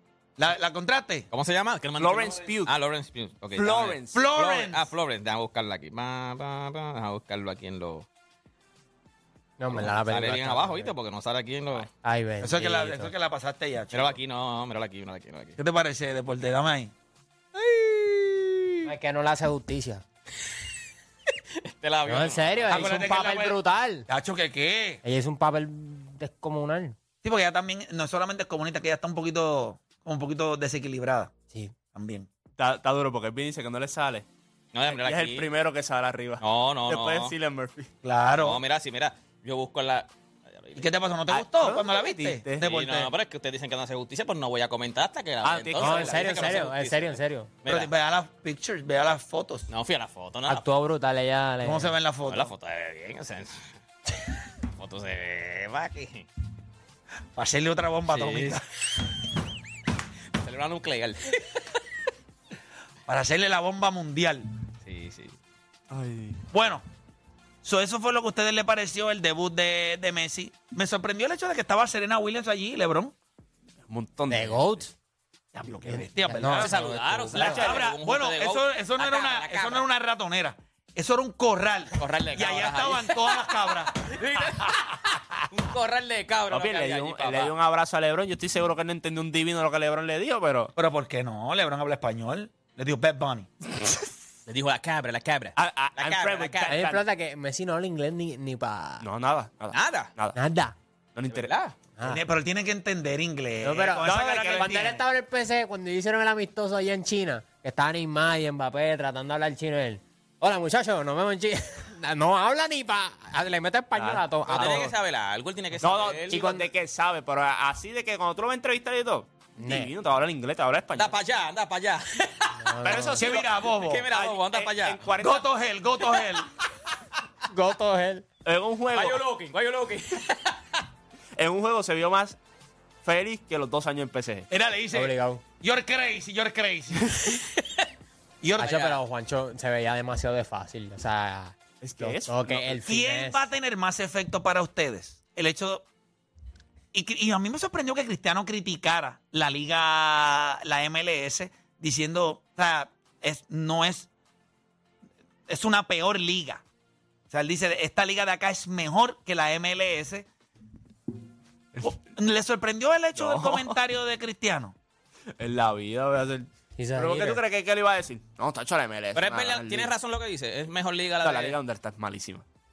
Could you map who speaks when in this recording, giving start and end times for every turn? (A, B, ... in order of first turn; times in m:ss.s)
0:00.4-0:01.3 A
0:01.3-0:08.0 B
0:02.0-0:02.7 C
0:03.5-0:04.2 C
0:04.1-0:04.8 A
0:09.6-0:10.9 D
0:09.7-0:11.9 B
0:12.0-0:13.1 D
0:12.4-0:14.2 A
0:13.9-0:15.6 B
0:15.6-0:16.9 A
0:17.5-0:18.7 B
0:18.8-0:20.0 D
0:21.6-0:23.0 B
0:22.0-0:24.1 D
0:22.7-0:25.0 A
0:25.0-0:27.0 D
0:27.2-0:31.3 A
0:31.9-0:32.3 A
0:32.6-0:34.2 C
0:34.7-0:35.5 B
0:34.9-0:37.9 C
0:36.4-0:37.3 B
0:38.0-0:38.6 A
0:38.4-0:40.9 B
0:40.8-0:43.1 A
0:41.3-0:42.7 C
0:42.6-0:47.9 B
0:45.4-0:46.5 C
0:45.8-0:47.5 D
0:47.7-0:49.7 A
0:49.7-0:50.6 B
0:50.5-0:51.9 D
0:51.6-0:52.5 A
0:52.2-0:53.7 B
0:54.7-0:56.3 B
0:57.4-0:58.6 A
0:58.1-0:58.6 B
1:00.4-1:01.8 B
1:03.1-1:04.5 A
1:04.8-1:05.4 B
1:05.9-1:06.5 C
1:06.5-1:06.8 A
1:07.6-1:13.1 A
1:13.9-1:14.8 C
1:14.3-1:14.9 D
1:15.5-1:16.8 A
1:15.8-1:17.7 D
1:16.4-1:19.8 B
1:17.3-1:24.7 A
1:17.4-1:17.8 C
1:22.0-1:27.5 B
1:26.5-1:30.7 C
1:30.8-1:33.5 A
1:34.5-1:36.8 B
1:35.6-1:37.0 C
1:36.7-1:39.0 D
1:39.0-1:40.4 C
1:39.7-1:40.1 B
1:40.3-1:40.7 D
1:41.1-1:41.5 C
1:41.3-1:41.8 B
1:42.0-1:45.0 A
1:43.6-1:54.9 D
1:44.0-1:44.9 C
1:54.0-1:54.8 C
1:54.5-1:56.4 B
1:55.8-2:01.2 C
1:56.3-1:56.7 D
1:59.6-1:59.9 D
2:01.0-2:02.6 B
2:02.6-2:03.2 D
2:02.8-2:03.5 C
2:03.2-2:04.1 A
2:03.2-2:05.1 B
2:04.1-2:05.4 C
2:05.2-2:06.5 A
2:07.5-2:08.2 D
2:08.4-2:09.2 C
2:08.9-2:10.8 B
2:11.4-2:12.4 C
2:13.0-2:14.5 C
2:14.5-2:17.2 A
2:14.9-2:15.4 D
2:18.4-2:19.0 A
2:18.6-2:23.4 D
2:18.6-2:18.9 B
2:21.8-2:22.8 C
2:22.8-2:25.8 A
2:26.9-2:34.1 A
2:35.5-2:36.6 A
2:37.3-2:40.2 A
2:41.8-2:44.7 A
2:43.1-2:43.8 C
2:45.4-2:49.9 C
2:46.8-2:47.4 D
2:49.1-2:51.6 B
2:51.2-2:52.4 C